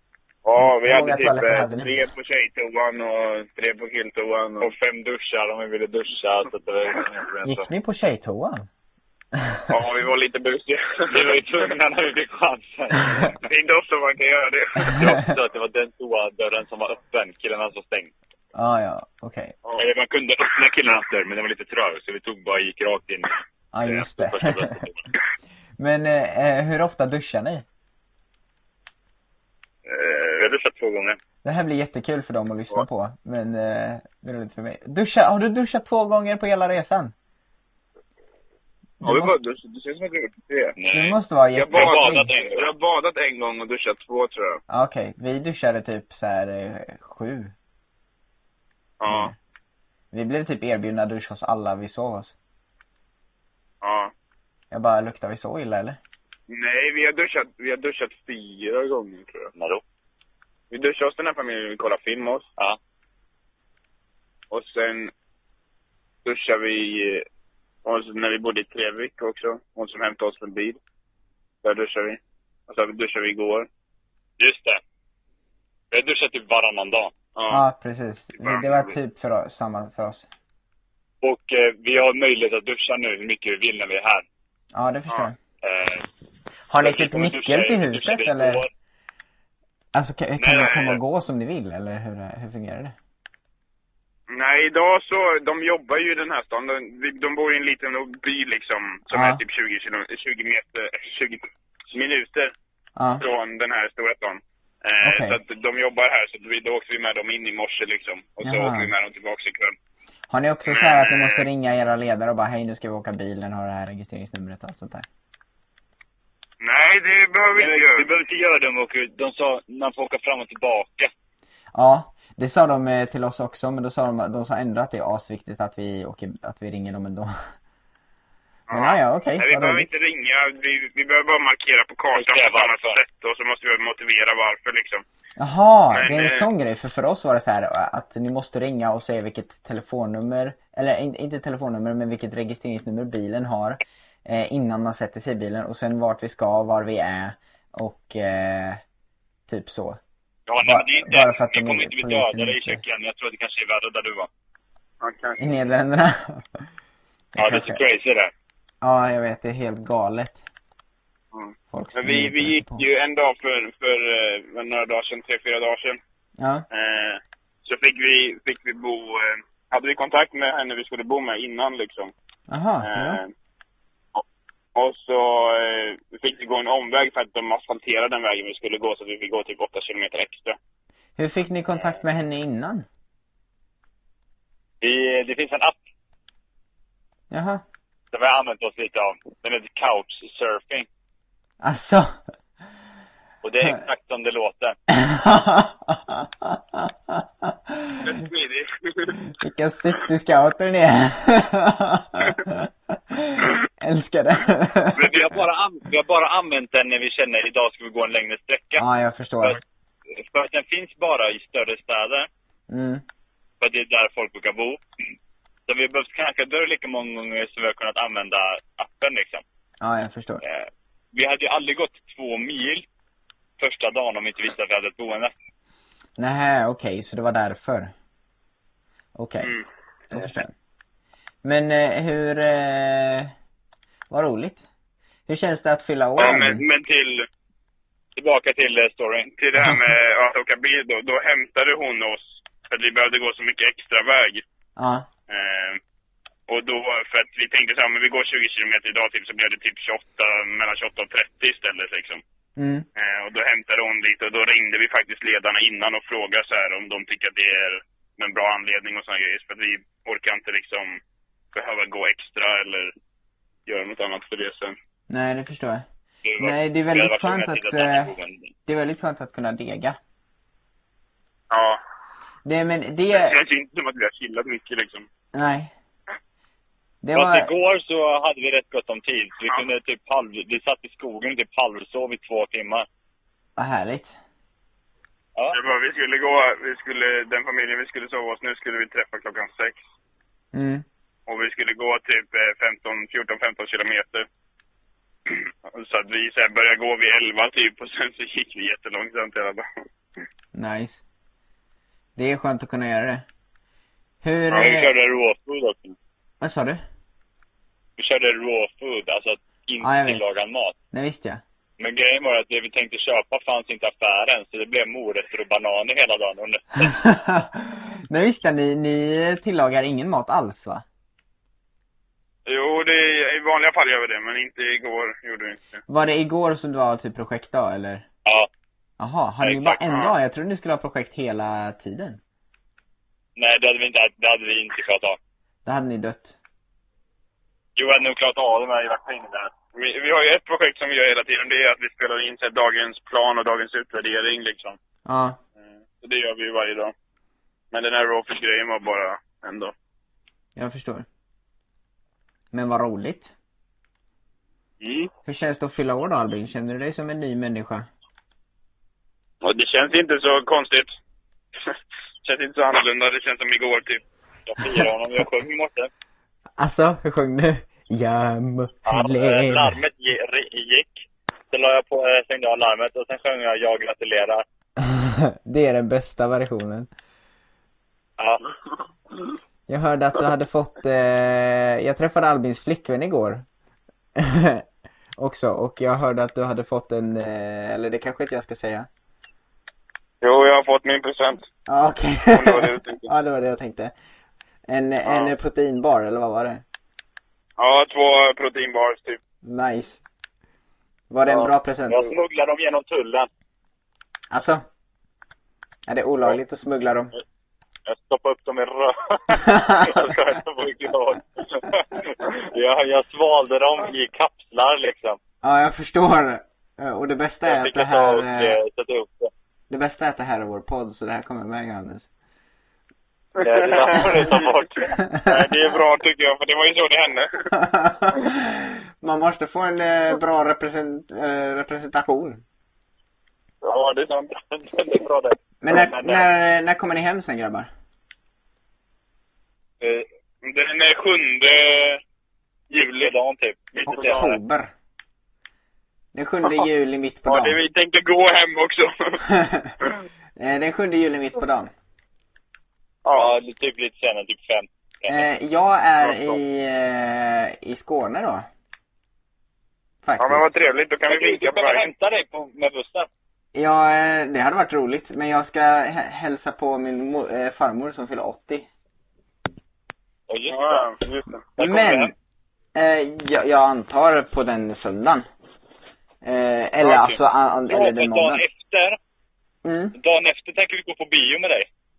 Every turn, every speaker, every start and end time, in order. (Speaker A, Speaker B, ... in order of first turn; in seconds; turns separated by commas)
Speaker A: 0.4-4.7, Speaker B: 0.6-1.9, Speaker C: 4.6-7.7, Speaker B: 7.4-8.7, Speaker B: 9.3-9.6, Speaker A: 9.7-11.4, Speaker C: 11.1-13.3, Speaker A: 13.4-15.2, Speaker C: 14.9-18.1, Speaker B: 18.5-19.5, Speaker C: 19.8-25.0, Speaker B: 23.7-24.8, Speaker B: 25.8-27.6, Speaker A: 29.9-30.4, Speaker C: 30.4-31.2, Speaker B: 31.4-37.1, Speaker A: 39.0-40.8, Speaker B: 39.0-39.4, Speaker C: 40.8-41.1, Speaker B: 40.9-42.3, Speaker A: 41.5-44.6, Speaker C: 41.7-42.6, Speaker B: 44.7-47.5, Speaker A: 49.0-49.3, Speaker B: 49.1-49.3, Speaker B: 50.1-52.3, Speaker A: 53.8-54.1, Speaker B: 54.7-56.0, Speaker A: 56.5-59.5, Speaker C: 59.5-59.8, Speaker A: 60.7-62.5, Speaker A: 64.5-65.1, Speaker A: 66.2-67.2, Speaker A: 67.8-70.8, Speaker A: 71.6-73.7, Speaker C: 74.4-74.8, Speaker C: 75.9-77.1, Speaker A: 77.3-77.6, Speaker B: 77.5-80.3, Speaker A: 78.4-78.9, Speaker C: 81.2-84.2, Speaker B: 84.7-85.4, Speaker C: 85.6-86.0, Speaker B: 86.7-88.6, Speaker C: 86.8-88.7, Speaker B: 89.9-92.9, Speaker C: 90.4-91.0, Speaker A: 94.3-102.5, Speaker B: 99.1-99.4, Speaker B: 103.0-103.2, Speaker A: 103.2-109.8, Speaker B: 105.0-105.4, Speaker B: 108.4-108.9, Speaker B: 110.3-115.0, Speaker A: 110.7-111.5, Speaker A: 116.6-118.1, Speaker C: 117.5-121.1, Speaker B: 121.7-127.3, Speaker A: 128.7-135.0, Speaker B: 128.7-129.9, Speaker C: 132.1-133.0, Speaker B: 135.4-148.8, Speaker A: 135.9-136.5, Speaker B: 149.5-150.0, Speaker C: 150.5-154.3, Speaker B: 150.6-152.8, Speaker A: 155.0-155.4, Speaker B: 155.4-156.7, Speaker B: 157.3-157.8, Speaker C: 157.4-158.3, Speaker B: 158.8-160.4, Speaker A: 161.3-166.0, Speaker B: 161.7-162.8, Speaker B: 166.4-166.6, Speaker A: 166.7-172.1, Speaker B: 172.5-173.2, Speaker A: 172.8-173.3, Speaker A: 174.7-180.6, Speaker B: 181.2-182.8, Speaker C: 184.8-185.8, Speaker B: 187.3-187.6, Speaker C: 188.1-190.9, Speaker B: 191.6-192.1, Speaker C: 193.4-194.8, Speaker B: 194.9-198.2, Speaker A: 198.0-199.2, Speaker B: 199.3-205.2, Speaker C: 204.9-208.8, Speaker B: 208.8-209.6, Speaker C: 210.1-212.3, Speaker B: 212.7-213.0, Speaker C: 213.6-214.8, Speaker C: 215.7-219.4, Speaker B: 219.8-220.4, Speaker C: 220.4-222.8, Speaker C: 223.6-225.3, Speaker B: 226.2-227.9, Speaker B: 229.1-229.5, Speaker B: 230.1-230.5, Speaker B: 231.4-233.3, Speaker B: 234.1-234.7, Speaker B: 235.3-236.6, Speaker A: 236.2-237.3, Speaker C: 238.2-239.3, Speaker A: 239.4-244.4, Speaker B: 244.8-245.1, Speaker A: 245.3-245.8, Speaker A: 246.5-252.2, Speaker B: 252.6-252.8, Speaker A: 252.9-261.0, Speaker A: 261.5-262.9, Speaker A: 263.6-264.8, Speaker B: 265.1-265.8, Speaker C: 266.2-268.5, Speaker B: 266.4-268.1, Speaker B: 268.7-270.0, Speaker A: 271.5-271.8, Speaker B: 272.4-273.4, Speaker A: 273.1-275.1, Speaker B: 275.3-275.7, Speaker B: 277.0-277.5, Speaker C: 277.1-282.9, Speaker B: 283.6-284.1, Speaker A: 285.5-289.8, Speaker B: 290.5-290.8, Speaker A: 291.3-294.2, Speaker A: 295.3-299.6, Speaker B: 300.5-301.0, Speaker B: 302.2-303.2, Speaker B: 304.2-304.9, Speaker C: 304.5-306.0, Speaker B: 306.4-306.8, Speaker C: 308.0-310.7, Speaker B: 309.8-310.3, Speaker B: 310.9-311.4, Speaker C: 311.8-316.9, Speaker B: 316.8-320.8, Speaker A: 322.4-325.8, Speaker B: 325.9-328.0, Speaker B: 329.0-332.2, Speaker A: 329.7-330.1, Speaker C: 333.4-335.2, Speaker B: 335.6-336.4, Speaker C: 337.8-339.5, Speaker A: 339.7-344.8, Speaker B: 345.0-345.4, Speaker A: 346.0-346.9, Speaker A: 347.7-349.7, Speaker B: 350.6-351.1, Speaker B: 352.5-353.3, Speaker A: 354.8-355.1, Speaker B: 355.2-357.9, Speaker A: 359.4-360.9, Speaker A: 361.6-364.0, Speaker C: 364.5-365.9, Speaker B: 366.6-369.8, Speaker C: 368.9-374.4, Speaker B: 374.8-376.9, Speaker C: 378.2-378.4, Speaker B: 379.7-383.4, Speaker B: 384.1-384.6, Speaker B: 385.2-388.9, Speaker A: 390.2-391.4, Speaker B: 391.7-393.9, Speaker A: 392.3-393.1, Speaker B: 394.7-396.6, Speaker A: 395.0-395.3, Speaker A: 397.6-399.2, Speaker B: 399.4-400.0, Speaker B: 401.1-402.1, Speaker C: 401.9-403.3, Speaker B: 404.3-404.6, Speaker B: 405.9-407.1, Speaker C: 407.9-415.2, Speaker B: 409.4-410.0, Speaker B: 415.4-418.6, Speaker C: 417.4-419.3, Speaker B: 419.7-422.1, Speaker C: 423.4-424.9, Speaker A: 423.4-424.5, Speaker A: 425.1-427.5, Speaker B: 425.1-425.4, Speaker B: 427.5-432.4, Speaker A: 433.6-434.3, Speaker C: 434.5-436.2, Speaker B: 435.6-437.7, Speaker A: 440.4-442.0, Speaker A: 442.7-443.1, Speaker C: 442.8-444.3, Speaker B: 443.9-444.7, Speaker A: 443.9-444.3, Speaker B: 446.1-447.6, Speaker A: 447.2-449.2, Speaker B: 449.3-449.7, Speaker B: 450.4-451.7, Speaker A: 453.0-453.3, Speaker C: 453.1-455.2, Speaker B: 455.1-458.4, Speaker A: 456.0-456.4, Speaker B: 460.0-460.5, Speaker A: 460.2-461.9, Speaker C: 461.1-463.1, Speaker B: 463.5-468.7, Speaker C: 470.3-470.9, Speaker A: 470.5-471.4, Speaker C: 471.6-472.1, Speaker B: 471.6-472.1, Speaker B: 472.7-475.2, Speaker B: 476.2-478.4, Speaker A: 476.9-477.1, Speaker C: 477.7-479.0, Speaker B: 479.6-479.9, Speaker C: 479.9-481.7